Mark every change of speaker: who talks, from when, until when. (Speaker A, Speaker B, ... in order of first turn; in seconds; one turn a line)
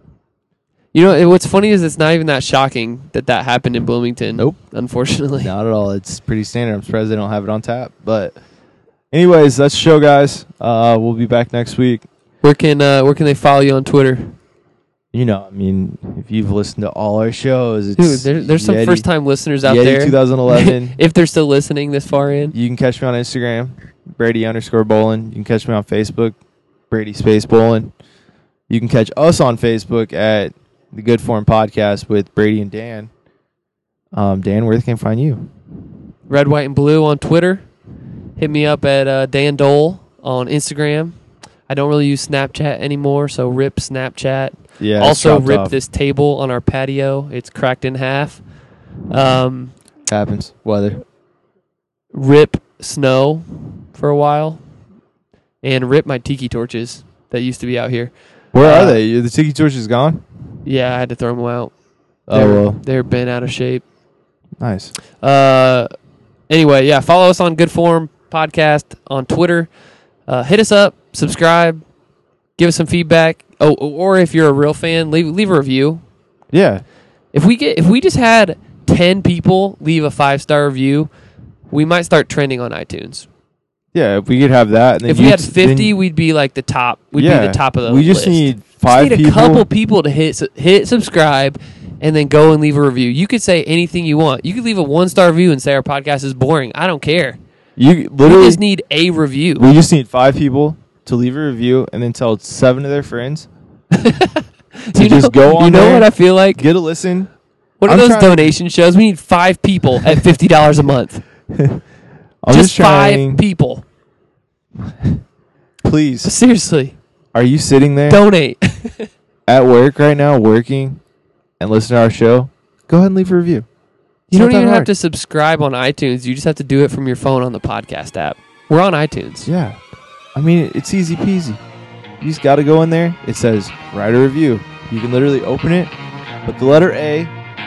Speaker A: 0.9-5.5
Speaker B: 5.4-8.4
Speaker B: 9.1-12.1
Speaker A: 12.4-14.4
Speaker B: 15.1-19.1
Speaker A: 18.0-22.6
Speaker B: 19.6-21.0
Speaker B: 22.5-26.4
Speaker B: 26.9-27.9
Speaker B: 28.7-33.1
Speaker B: 34.1-35.5
Speaker A: 36.3-37.7
Speaker A: 38.4-48.5
Speaker B: 44.8-45.7
Speaker A: 49.1-49.8
Speaker B: 50.0-51.0
Speaker A: 52.1-54.6
Speaker A: 55.6-59.0
Speaker B: 58.5-60.2
Speaker A: 60.6-61.7
Speaker B: 62.3-62.8
Speaker A: 62.3-63.9
Speaker B: 64.6-64.9
Speaker A: 65.2-65.9
Speaker A: 66.5-69.7
Speaker A: 70.3-71.8
Speaker A: 72.6-76.0
Speaker B: 76.5-76.8
Speaker A: 77.3-81.1
Speaker A: 81.7-83.3
Speaker B: 83.9-86.0
Speaker A: 85.0-97.4
Speaker B: 87.2-89.7
Speaker B: 97.8-98.6
Speaker A: 98.2-99.7
Speaker B: 99.6-103.5
Speaker A: 103.9-106.6
Speaker B: 104.9-107.3
Speaker A: 107.8-111.2
Speaker B: 107.9-108.5
Speaker B: 111.5-111.8
Speaker B: 112.4-113.4
Speaker A: 112.5-113.8
Speaker B: 115.8-116.3
Speaker A: 116.2-117.0
Speaker B: 117.3-118.2
Speaker A: 118.1-119.1
Speaker B: 119.5-121.0
Speaker B: 121.6-123.7
Speaker A: 124.3-129.5
Speaker B: 124.3-124.9
Speaker B: 129.4-129.8
Speaker B: 130.3-131.6
Speaker B: 132.2-135.9
Speaker B: 136.4-137.3